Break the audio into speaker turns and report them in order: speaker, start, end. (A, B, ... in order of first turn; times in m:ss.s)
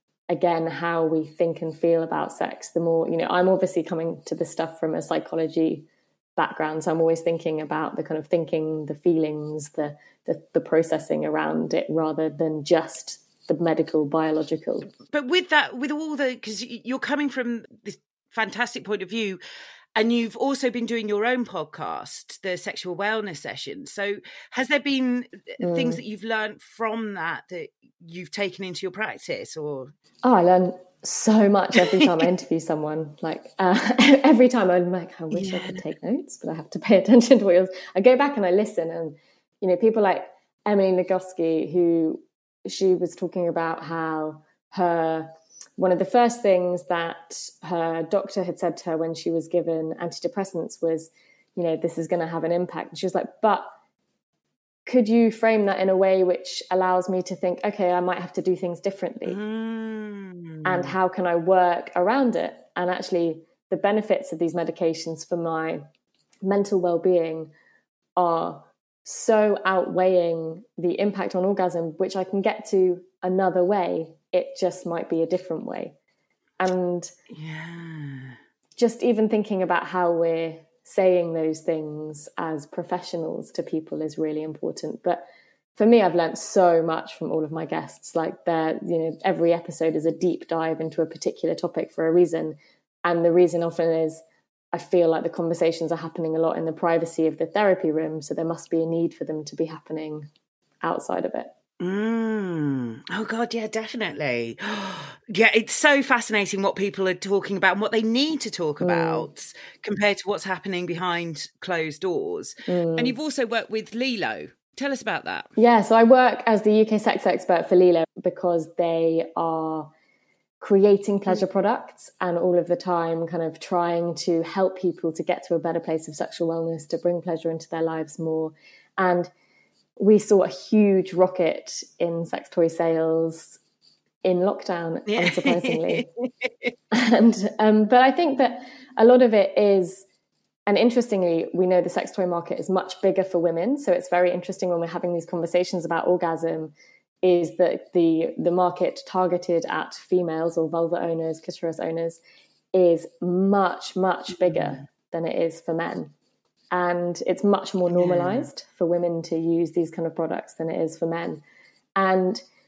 0:00.3-0:14.9 A
0:15.0-0:19.4 B
0:20.0-0:29.9 B
0:25.6-0:26.0 A
0:30.2-0:53.7 A
0:31.8-0:32.1 B
0:35.3-0:35.8 B
0:54.9-0:59.4 A
0:59.3-1:01.0 B
1:00.6-1:05.8 A
1:06.4-1:07.5 A
1:08.2-1:15.9 A
1:16.6-1:17.1 A
1:17.3-1:18.4 B
1:18.8-1:25.2 A
1:25.8-1:34.2 A
1:34.7-1:40.3 A
1:40.8-1:41.5 A
1:41.8-1:55.5 B
1:48.8-1:49.3 A
1:52.7-1:53.2 A
1:55.6-1:59.9 A
2:00.6-2:09.3 A
2:10.0-2:13.6 A
2:14.2-2:16.1 A
2:15.1-2:16.7 B
2:16.9-2:20.0 A
2:20.7-2:32.2 A
2:32.7-2:36.1 A
2:34.4-2:34.8 B
2:36.7-2:41.4 A
2:37.9-2:38.5 B
2:42.0-2:42.4 A